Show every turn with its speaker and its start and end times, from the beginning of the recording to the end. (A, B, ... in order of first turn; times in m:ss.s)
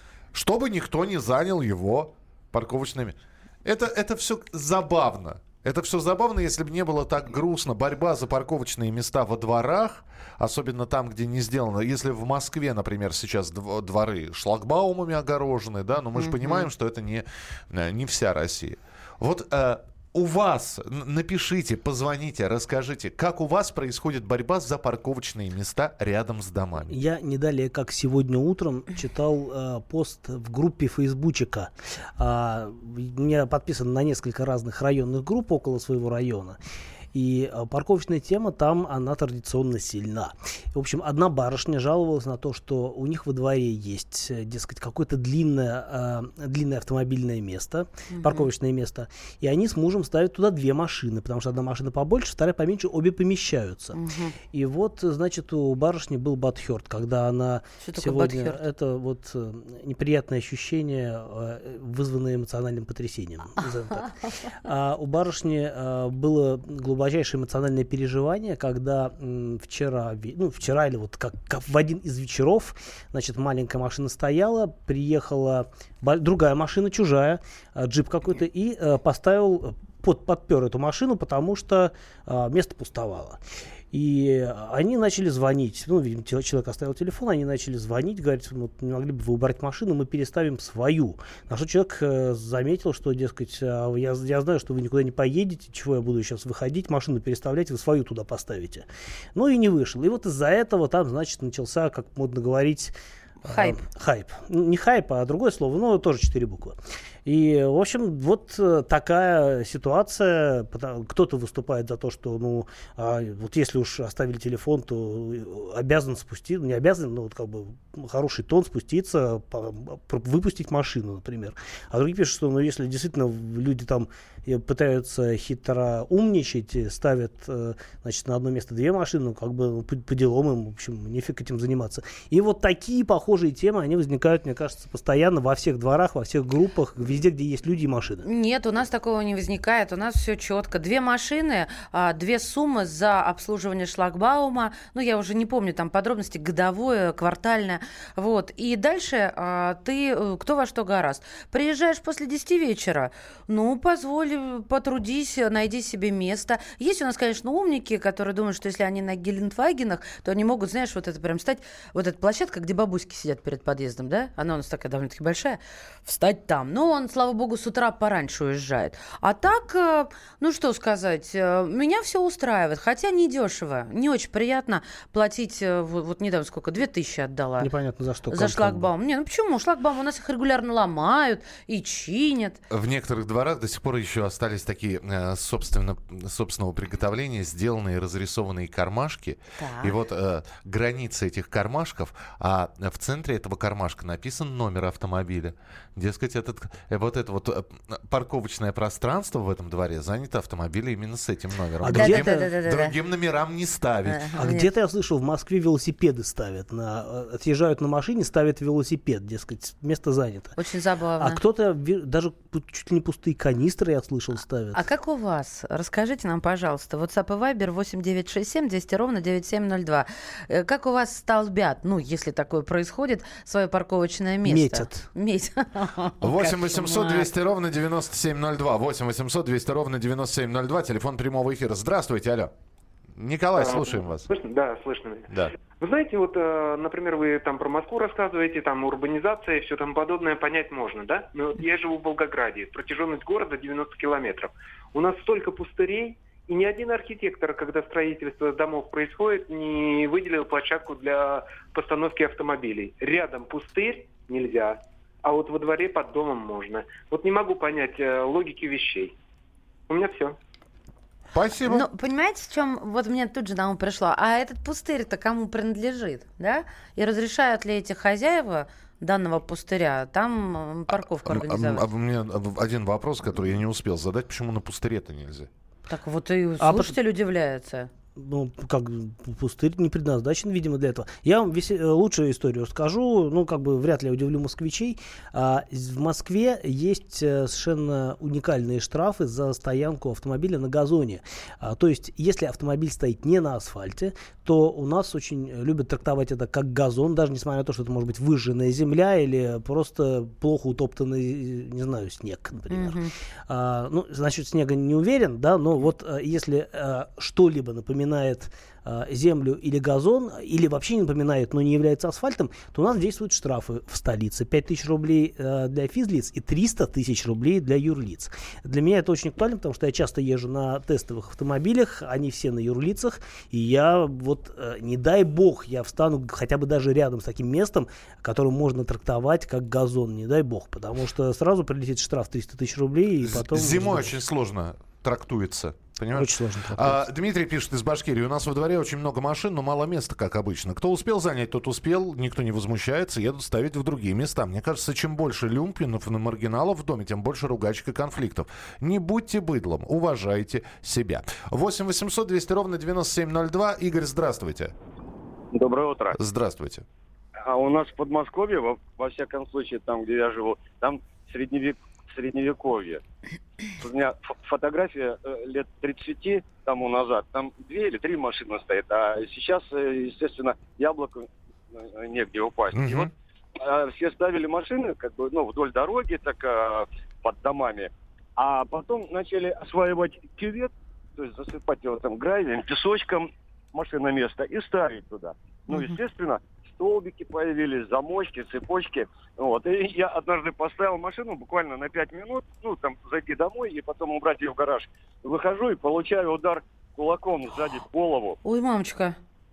0:00.3-0:27.0 A
0:16.2-0:16.7 B
0:26.9-0:36.6 C
0:37.1-0:54.0 C
0:48.1-0:48.5 B
0:53.9-0:54.3 B
0:54.5-1:04.1 C
0:57.8-0:58.6 B
1:04.6-1:23.4 C
1:23.9-1:42.9 C
1:43.4-1:43.8 B
1:43.4-2:18.2 C
2:18.2-2:57.7 B
2:57.6-2:58.9 C
2:58.3-3:02.6 B
3:02.7-3:24.4 A
3:09.6-3:09.9 B
3:21.8-3:22.5 C
3:21.8-3:22.9 B
3:24.1-3:24.7 B
3:24.4-3:30.6 C
3:30.6-3:31.4 B
3:31.2-3:34.8 C
3:34.7-3:47.3 B
3:44.4-3:45.1 C
3:46.2-3:52.5 A
3:53.2-3:54.3 A
3:53.6-4:19.1 D
4:19.9-4:20.4 D
4:21.3-4:21.8 A
4:21.6-4:31.8 B
4:31.3-4:35.5 A
4:35.9-4:37.9 B
4:36.6-4:37.0 C
4:38.2-5:34.2 C
5:02.7-5:03.1 B
5:33.2-5:54.7 A
5:36.1-5:37.0 C
5:55.5-5:56.2 E
5:56.2-5:56.8 A
5:57.4-6:03.0 E
6:03.8-6:38.4 E
6:12.7-6:13.1 A
6:38.4-6:39.2 B